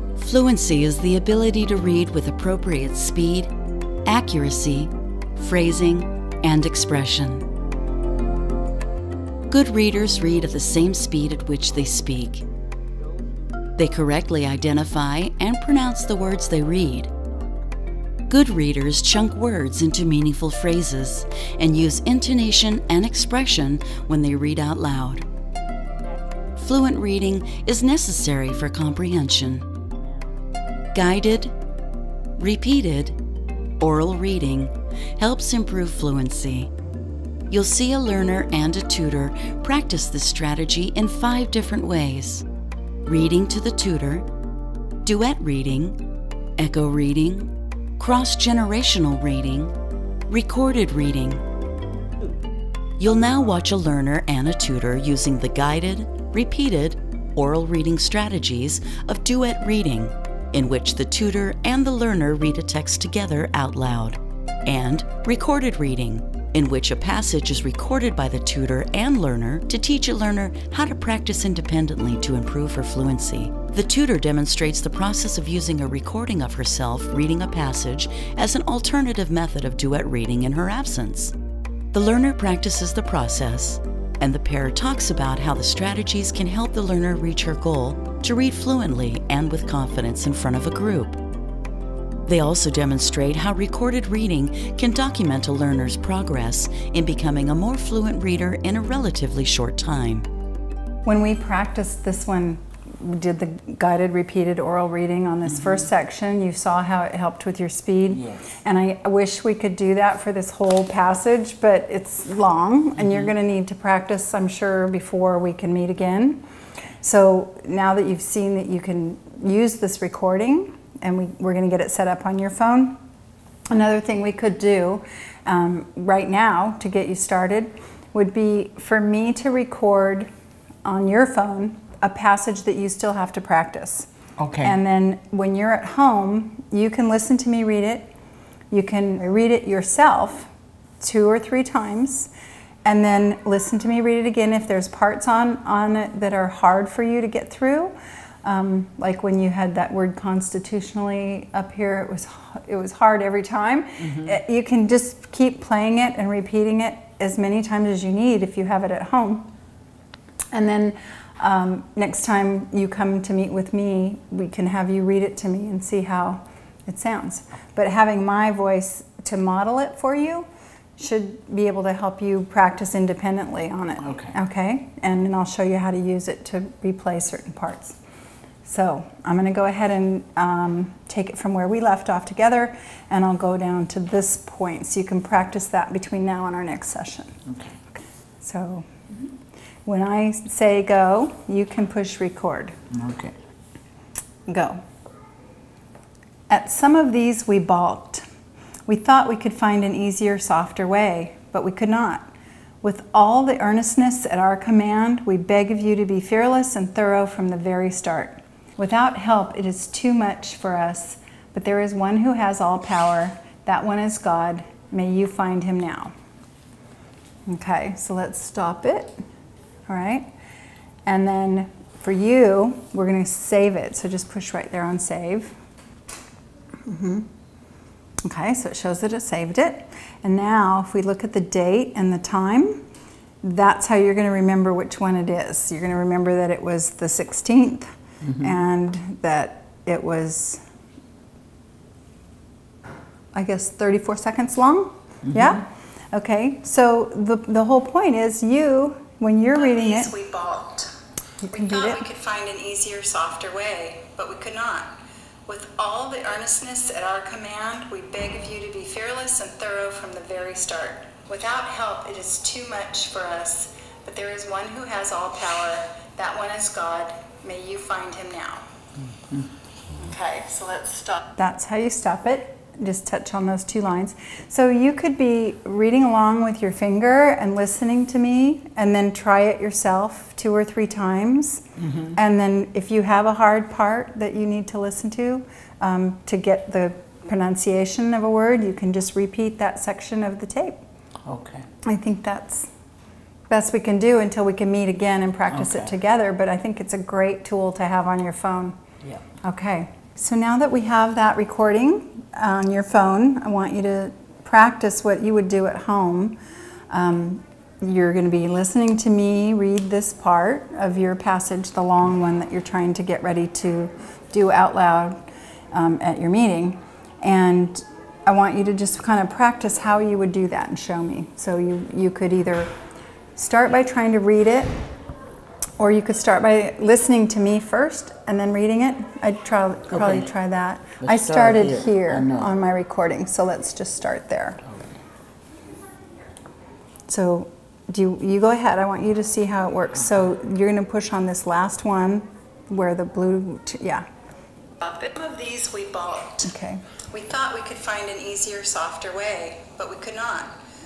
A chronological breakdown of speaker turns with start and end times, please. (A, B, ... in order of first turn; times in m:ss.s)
0:00.2-0:03.5 A
0:04.0-0:07.4 A
0:09.5-0:12.4 A
0:13.8-0:17.1 A
0:18.3-0:25.2 A
0:26.6-0:29.6 A
0:30.9-0:31.5 A
0:32.4-0:33.2 A
0:33.8-0:36.7 A
0:37.5-0:42.4 A
0:43.0-0:44.2 A
0:45.0-0:46.0 A
0:46.6-0:49.7 A
0:50.3-0:51.4 A
0:53.0-1:21.3 A
1:21.9-1:31.2 A
1:32.2-1:40.3 A
1:41.0-1:56.4 B
1:48.1-1:48.6 C
1:57.0-2:03.0 B
2:03.7-2:10.3 B
2:10.8-2:14.1 B
2:14.4-2:14.8 C
2:14.6-2:18.1 B
2:18.7-2:20.5 B
2:21.0-2:22.3 B
2:22.8-2:39.5 B
2:34.0-2:34.4 C
2:40.5-2:58.0 B
2:54.0-2:54.4 C
2:58.6-3:07.4 B
3:07.5-3:07.7 C
3:08.4-3:08.9 B
3:09.8-3:12.8 B
3:12.9-3:13.3 C
3:14.5-3:14.8 B
3:16.5-3:18.2 B
3:18.9-3:22.3 B
3:22.8-3:36.1 B
3:37.5-3:39.2 B
3:39.9-3:40.3 B
3:41.0-3:45.5 B
3:46.8-3:47.3 B
3:48.2-3:52.8 B
3:53.4-4:00.6 B
4:03.3-4:10.1 B
4:05.3-4:05.6 C
4:09.6-4:10.9 D
4:11.4-4:12.0 B
4:11.5-4:14.9 D
4:15.5-4:28.6 D
4:30.0-4:31.2 D
4:31.4-4:41.6 B
4:41.8-4:42.2 C
4:42.2-4:50.8 B
4:51.2-4:51.6 C
4:51.8-4:52.7 B
4:53.5-4:58.8 B
4:55.5-4:55.9 C
4:59.4-5:06.4 B
5:06.9-5:15.2 B
5:15.7-5:22.7 B
5:23.4-5:24.8 B
5:25.8-5:34.6 B
5:29.9-5:30.3 C
5:31.0-5:32.5 C
5:37.1-5:44.0 B
5:44.8-5:46.5 D
5:46.4-5:46.9 B
5:47.1-5:50.5 D